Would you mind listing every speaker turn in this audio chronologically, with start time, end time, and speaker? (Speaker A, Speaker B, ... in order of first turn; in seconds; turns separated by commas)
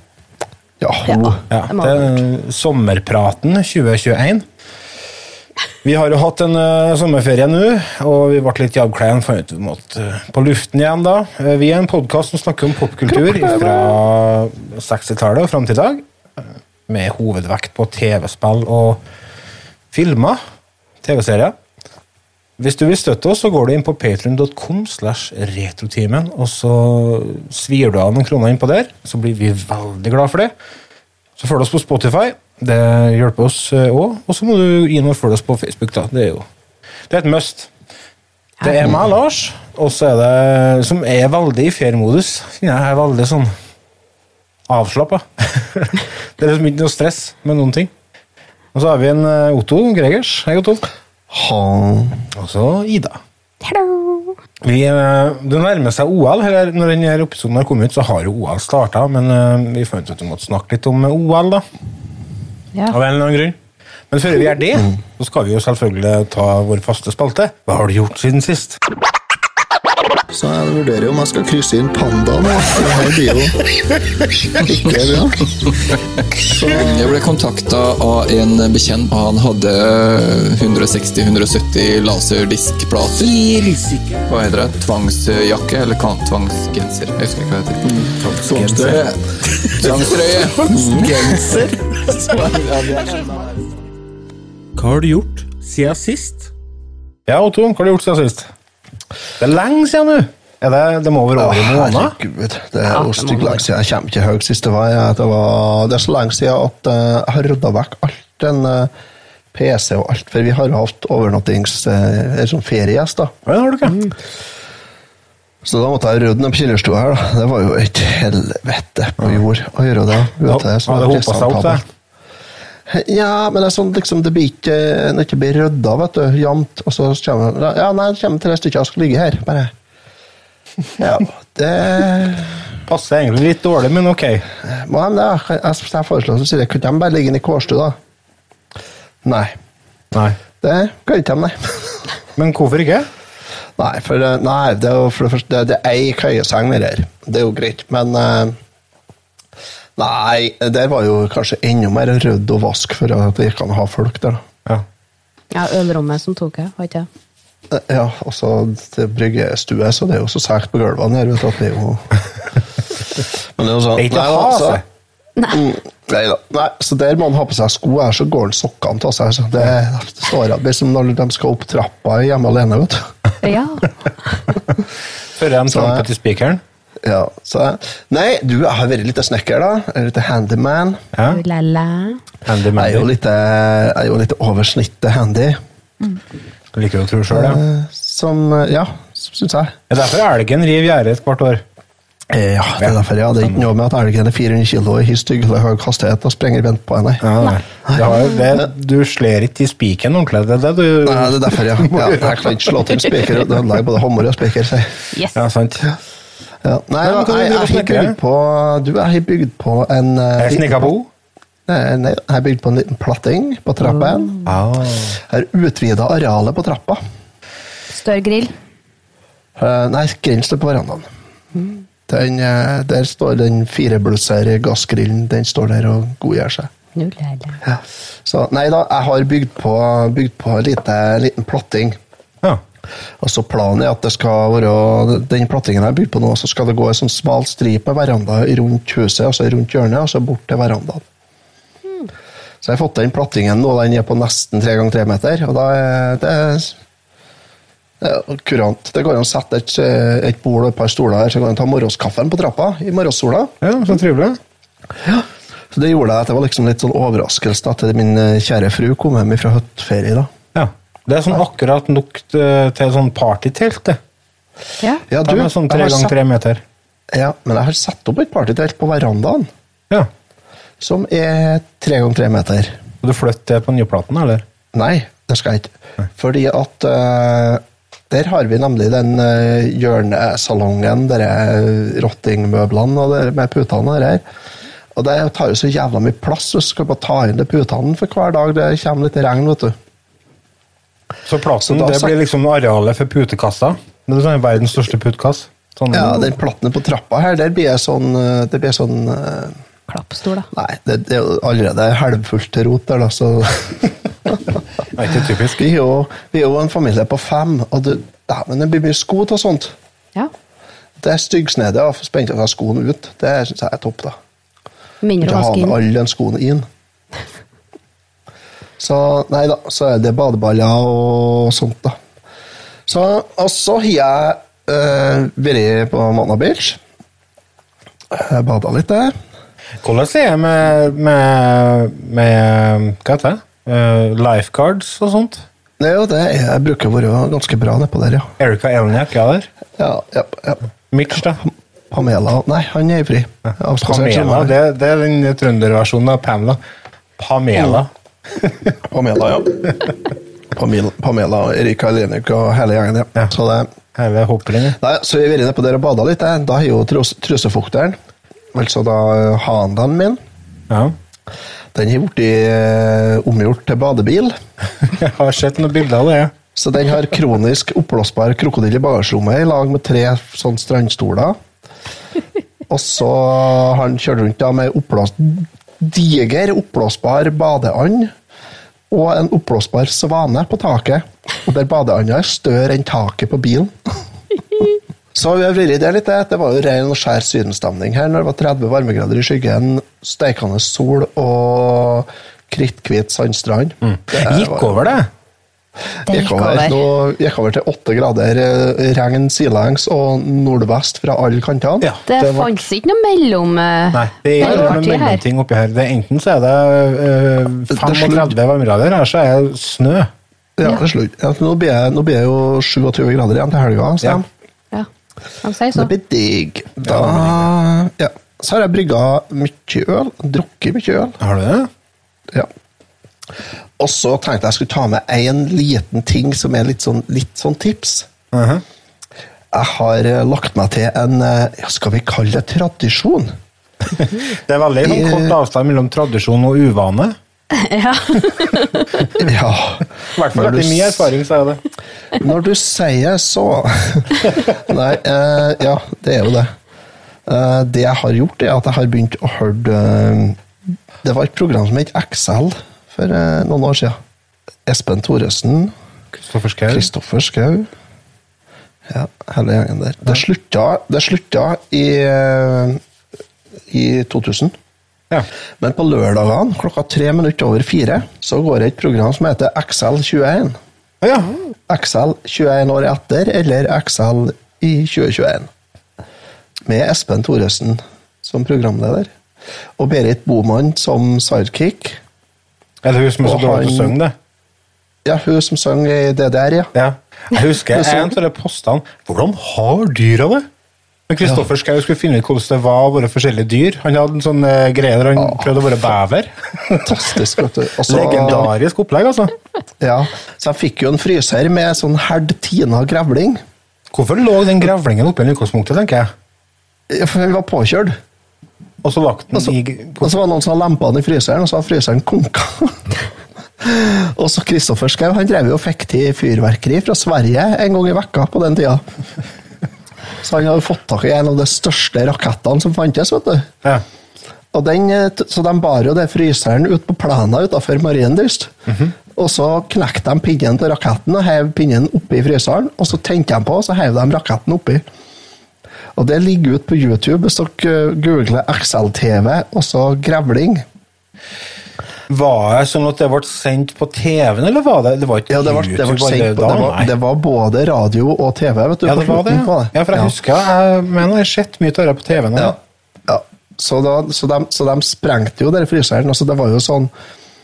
Speaker A: 0.8-1.4, Speaker B: 1.1-2.0, Speaker C: 1.5-4.4, Speaker C: 5.8-16.0, Speaker A: 13.1-14.0, Speaker C: 16.9-19.0, Speaker C: 19.9-20.4, Speaker C: 21.0-21.6, Speaker C: 22.6-30.5, Speaker C: 31.4-36.5, Speaker C: 37.1-37.7, Speaker C: 38.6-43.5, Speaker C: 44.7-47.9, Speaker C: 48.7-50.9, Speaker A: 51.3-52.2, Speaker C: 52.3-53.2, Speaker B: 53.6-54.4, Speaker C: 54.6-61.6, Speaker C: 62.9-63.6, Speaker C: 64.1-68.8, Speaker A: 70.3-73.7, Speaker A: 74.5-75.5, Speaker A: 76.4-76.9, Speaker D: 76.6-83.4, Speaker C: 83.2-84.2, Speaker D: 84.2-91.7, Speaker C: 88.2-89.0, Speaker A: 88.5-89.0, Speaker C: 90.7-91.5, Speaker A: 91.3-91.6, Speaker D: 92.3-93.0, Speaker C: 94.8-96.5, Speaker C: 97.3-98.5, Speaker C: 99.4-102.1, Speaker A: 101.3-108.9, Speaker B: 102.9-103.7, Speaker A: 109.5-113.3, Speaker C: 113.5-114.1, Speaker A: 115.6-121.8, Speaker C: 120.5-121.8, Speaker A: 122.9-129.7, Speaker A: 131.0-132.7, Speaker C: 132.9-134.5, Speaker A: 134.6-137.9, Speaker A: 139.2-139.5, Speaker C: 140.1-140.4, Speaker A: 140.6-142.0, Speaker C: 142.4-143.1, Speaker A: 143.8-148.6, Speaker A: 150.0-154.4, Speaker B: 155.5-157.1, Speaker A: 157.7-162.2, Speaker A: 163.2-164.8, Speaker C: 163.9-164.8, Speaker B: 165.4-165.7, Speaker A: 165.5-173.1, Speaker B: 173.4-173.9, Speaker C: 175.3-176.6, Speaker A: 175.7-176.1, Speaker A: 177.0-181.0, Speaker C: 181.1-181.4, Speaker B: 181.2-182.2, Speaker C: 182.4-183.1, Speaker A: 182.8-185.6, Speaker C: 186.7-187.6, Speaker A: 187.3-189.8, Speaker C: 189.9-191.6, Speaker A: 192.3-197.3, Speaker C: 192.8-193.6, Speaker C: 197.2-202.7, Speaker B: 197.4-198.4, Speaker A: 201.0-205.0, Speaker C: 205.3-205.9, Speaker A: 206.6-210.9, Speaker C: 207.0-208.2, Speaker C: 210.4-211.1, Speaker A: 211.7-214.4, Speaker B: 213.8-214.5, Speaker C: 214.5-215.2, Speaker A: 215.2-217.0, Speaker B: 217.9-218.5, Speaker A: 219.6-226.7, Speaker B: 227.0-227.6, Speaker A: 227.6-232.0, Speaker A: 233.2-241.0, Speaker A: 242.6-246.8, Speaker A: 248.0-253.5, Speaker C: 253.6-254.4, Speaker A: 255.0-260.3, Speaker C: 260.5-264.0, Speaker A: 265.1-266.1, Speaker C: 265.2-266.6, Speaker A: 267.1-269.5, Speaker A: 270.8-272.8, Speaker C: 273.0-274.4, Speaker A: 274.7-284.2, Speaker A: 284.9-289.8, Speaker C: 291.2-296.3, Speaker A: 291.6-292.1, Speaker A: 295.9-299.6, Speaker B: 299.9-300.5, Speaker A: 300.5-304.4, Speaker C: 304.9-305.6, Speaker A: 305.5-309.7, Speaker A: 311.0-314.1, Speaker B: 315.0-315.8, Speaker A: 315.2-316.6, Speaker A: 318.8-322.0, Speaker A: 322.9-326.8, Speaker A: 328.1-329.1, Speaker C: 329.8-335.4, Speaker A: 335.8-338.3, Speaker C: 338.4-339.5, Speaker A: 339.8-340.6, Speaker C: 340.9-341.4, Speaker A: 341.4-344.5, Speaker C: 343.5-346.6, Speaker C: 347.2-348.7, Speaker A: 348.8-349.9, Speaker A: 350.5-353.7, Speaker C: 354.0-354.8, Speaker A: 354.8-358.0, Speaker A: 358.5-360.2, Speaker C: 360.7-360.9, Speaker A: 361.7-364.4, Speaker C: 364.8-366.3, Speaker A: 366.6-371.4, Speaker A: 372.7-378.1, Speaker A: 378.9-384.0, Speaker A: 385.1-395.0, Speaker C: 393.8-395.1, Speaker B: 396.1-396.8, Speaker A: 396.1-401.9, Speaker C: 401.8-402.6, Speaker B: 402.1-405.2, Speaker C: 403.9-410.1, Speaker A: 407.7-408.3, Speaker A: 410.6-414.2, Speaker B: 415.4-415.9, Speaker A: 415.8-421.2, Speaker C: 416.9-417.5, Speaker C: 421.2-421.7, Speaker A: 423.8-428.1, Speaker C: 428.3-428.6, Speaker A: 429.5-433.4, Speaker C: 434.0-437.1, Speaker A: 434.8-435.4, Speaker B: 437.5-439.1, Speaker A: 439.2-441.1, Speaker C: 440.1-441.6, Speaker A: 442.1-446.5, Speaker A: 447.2-450.4, Speaker A: 451.0-454.0, Speaker A: 454.6-455.7, Speaker C: 456.1-456.9, Speaker A: 456.7-457.7, Speaker A: 458.9-462.8, Speaker A: 463.7-464.5, Speaker A: 465.6-470.6, Speaker C: 471.0-471.4, Speaker A: 471.7-475.5, Speaker A: 476.6-479.1, Speaker A: 479.8-482.0, Speaker C: 482.8-484.1, Speaker A: 483.2-483.9, Speaker A: 485.0-486.7, Speaker C: 486.8-490.4, Speaker A: 487.7-488.1, Speaker C: 491.1-497.0, Speaker A: 496.8-498.5, Speaker C: 497.9-499.3, Speaker A: 499.8-503.4, Speaker C: 503.9-506.1, Speaker A: 506.9-507.9, Speaker C: 508.8-510.1, Speaker A: 509.3-512.8, Speaker A: 513.6-518.8, Speaker A: 520.2-523.5, Speaker A: 524.5-528.5, Speaker C: 528.7-528.9, Speaker A: 529.1-534.8, Speaker A: 536.0-540.6, Speaker C: 542.1-546.9, Speaker A: 545.3-550.1, Speaker C: 548.9-552.5, Speaker A: 552.3-556.9